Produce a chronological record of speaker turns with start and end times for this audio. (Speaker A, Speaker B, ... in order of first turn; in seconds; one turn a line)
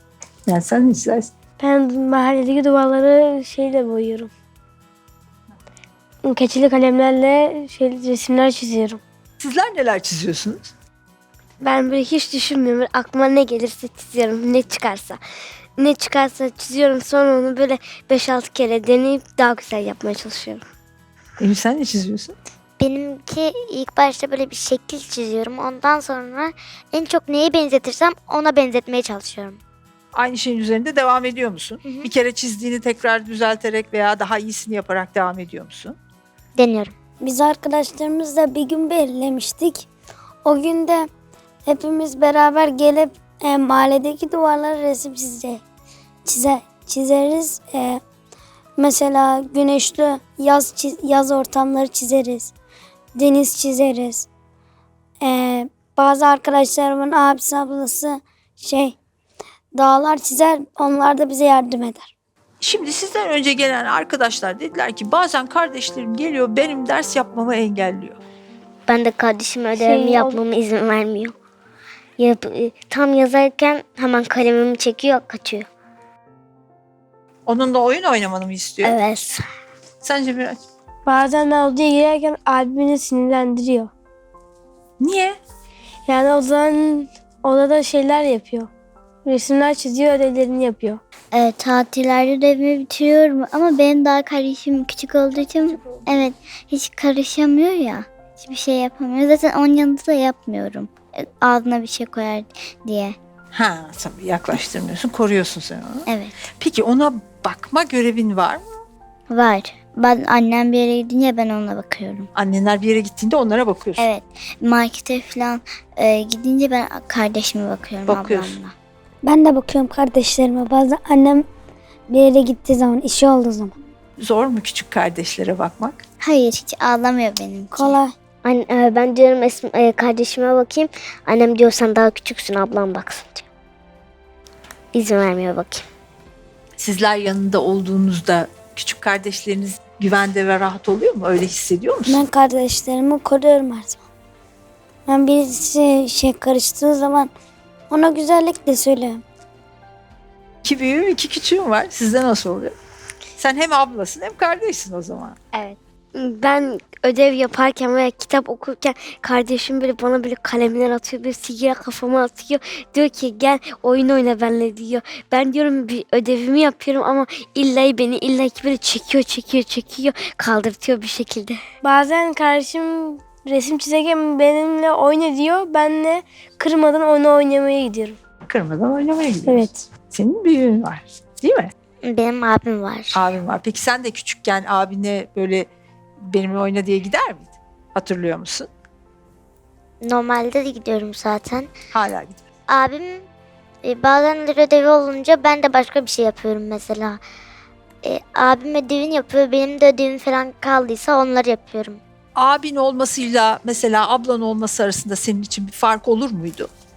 Speaker A: 0.5-1.3
Speaker B: 1.6-4.3
Speaker B: 6.2-9.0
Speaker A: 9.4-10.7
Speaker C: 11.6-15.2
Speaker C: 15.8-20.6
Speaker A: 21.4-22.4
Speaker D: 22.8-29.6
Speaker A: 30.1-36.0
Speaker D: 31.8-32.1
Speaker D: 36.6-36.9
Speaker E: 37.2-39.9
Speaker E: 40.4-41.1
Speaker E: 41.7-45.6
Speaker E: 46.2-48.0
Speaker E: 48.8-52.5
Speaker E: 53.1-54.3
Speaker E: 55.2-59.0
Speaker E: 59.7-62.1
Speaker A: 62.6-68.2
Speaker F: 68.9-71.3
Speaker B: 69.8-70.4
Speaker F: 72.2-75.7
Speaker A: 77.5-79.0
Speaker F: 78.8-79.4
Speaker A: 80.0-80.6
Speaker B: 81.1-83.9
Speaker A: 85.0-85.4
Speaker B: 86.1-88.7
Speaker B: 89.2-91.0
Speaker G: 91.3-103.2
Speaker A: 103.5-106.1
Speaker G: 106.1-106.4
Speaker A: 106.6-108.8
Speaker G: 109.3-112.3
Speaker A: 112.3-114.1
Speaker G: 114.0-118.8
Speaker A: 118.1-118.6
Speaker E: 119.2-121.5
Speaker E: 122.1-123.7
Speaker A: 124.2-126.0
Speaker G: 126.2-128.0
Speaker E: 127.7-128.1
Speaker F: 128.4-133.5
Speaker F: 134.9-135.8
Speaker A: 136.8-142.2
Speaker E: 142.1-144.0
Speaker E: 145.1-147.3
Speaker E: 147.9-149.2
Speaker A: 150.6-152.8
Speaker A: 153.4-155.4
Speaker C: 156.2-171.5
Speaker B: 171.8-178.2
Speaker A: 178.5-181.7
Speaker B: 179.5-179.9
Speaker D: 182.0-183.2
Speaker A: 183.1-185.7
Speaker A: 186.2-188.7
Speaker D: 190.0-191.7
Speaker A: 191.9-192.4
Speaker D: 192.7-193.3
Speaker D: 193.8-197.2
Speaker D: 198.0-202.0
Speaker A: 202.4-206.7